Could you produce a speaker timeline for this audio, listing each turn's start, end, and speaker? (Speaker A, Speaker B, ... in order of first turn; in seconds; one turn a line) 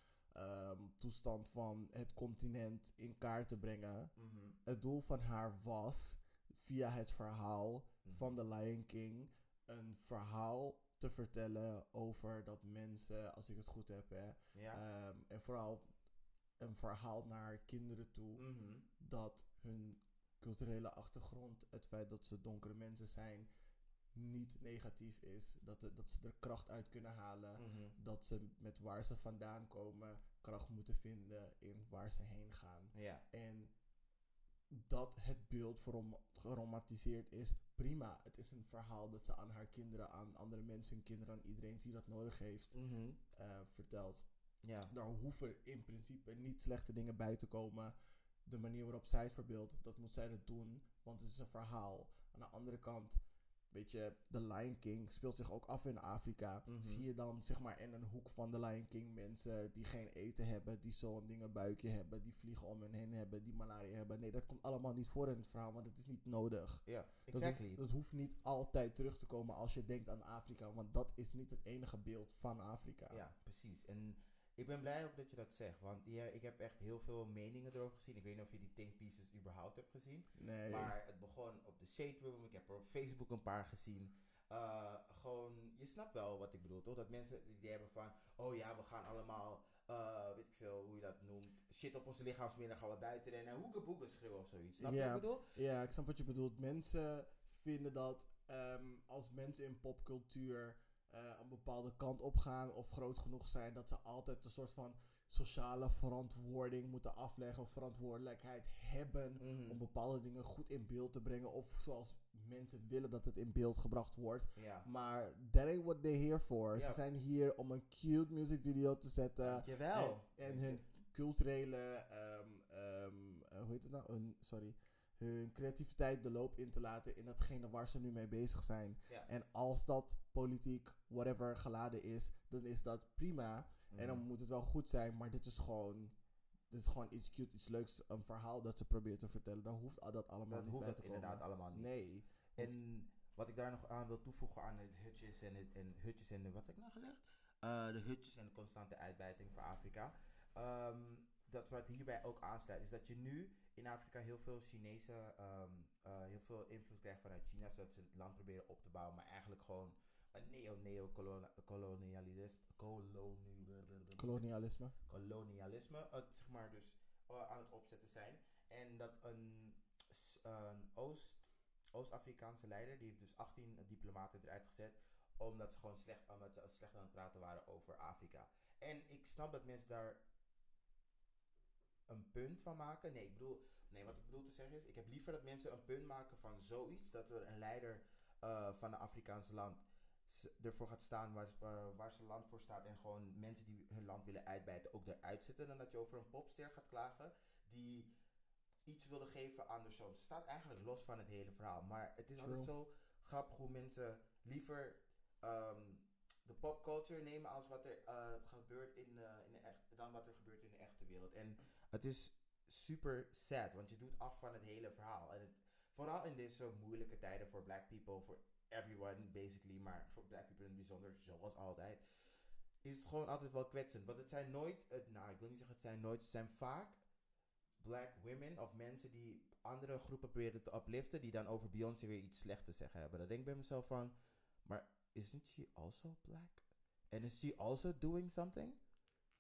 Speaker A: 0.3-4.1
Speaker B: 4.2-4.6
Speaker A: 4.6-15.9
Speaker B: 8.0-8.3
Speaker B: 14.5-14.8
Speaker A: 16.6-18.4
Speaker B: 18.4-18.9
Speaker A: 19.0-23.5
Speaker A: 24.1-33.7
Speaker B: 27.6-27.9
Speaker B: 32.9-33.2
Speaker A: 34.7-42.8
Speaker B: 42.7-43.2
Speaker A: 43.3-44.2
Speaker B: 44.6-44.9
Speaker A: 44.9-47.9
Speaker A: 48.5-53.2
Speaker A: 53.7-73.2
Speaker B: 56.7-57.0
Speaker B: 66.8-67.8
Speaker B: 73.1-95.5
Speaker A: 80.4-80.9
Speaker A: 94.8-136.1
Speaker B: 109.4-109.8
Speaker B: 114.5-114.9
Speaker B: 116.7-117.0
Speaker B: 119.4-120.8
Speaker B: 133.9-134.2
Speaker A: 136.7-142.8
Speaker B: 140.5-141.9
Speaker B: 142.6-164.4
Speaker A: 164.2-164.9
Speaker B: 165.1-171.4
Speaker B: 171.9-180.2
Speaker B: 182.1-198.1
Speaker B: 198.8-222.0
Speaker A: 202.4-202.7
Speaker B: 222.8-227.0
Speaker B: 227.8-234.1
Speaker B: 234.7-238.8